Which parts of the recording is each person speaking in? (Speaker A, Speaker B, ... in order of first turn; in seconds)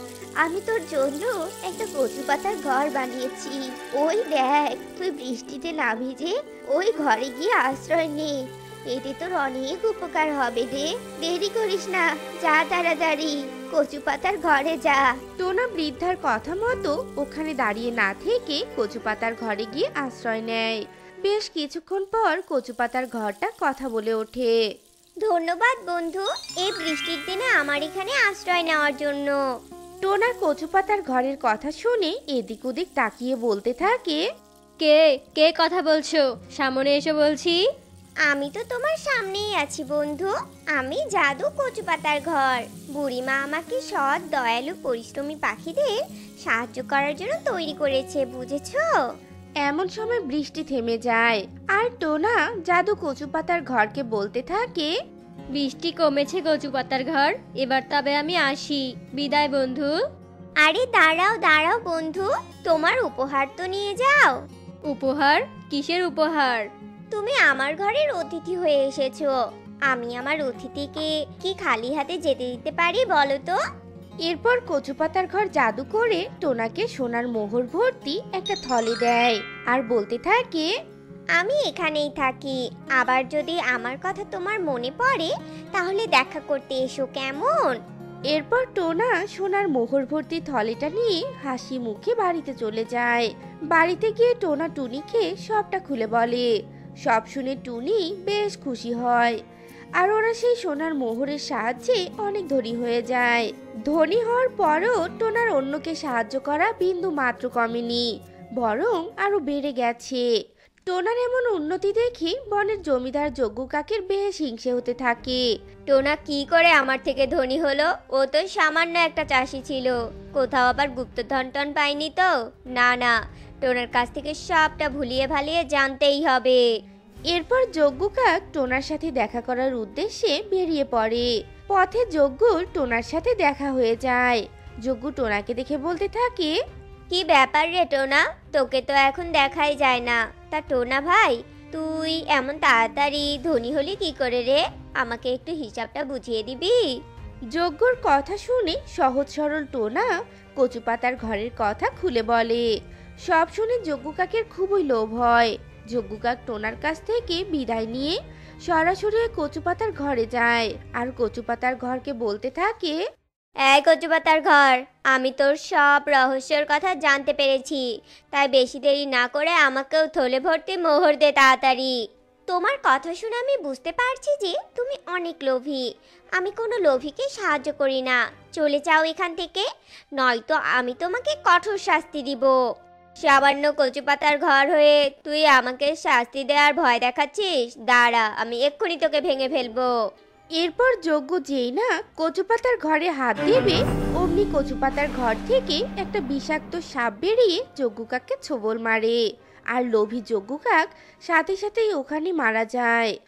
Speaker A: 0.4-8.4, 8.9-15.1, 25.2-29.4, 38.3-48.9, 60.6-64.4, 67.1-69.3, 69.9-73.6, 81.3-87.8, 115.9-126.7, 137.1-146.9, 163.6-171.9, 172.5-175.8, 176.4-179.7, 180.2-182.5, 183.2-189.9
Speaker B: 15.4-24.5, 30.0-34.2, 49.6-54.9, 74.2-80.7, 88.3-96.5, 97.0-99.4, 100.0-108.0, 108.6-110.2, 110.9-115.4, 127.3-136.5, 147.5-152.6, 153.2-163.0, 190.6-199.2, 199.7-203.1
Speaker C: 34.8-37.6, 55.5-59.9, 64.9-66.7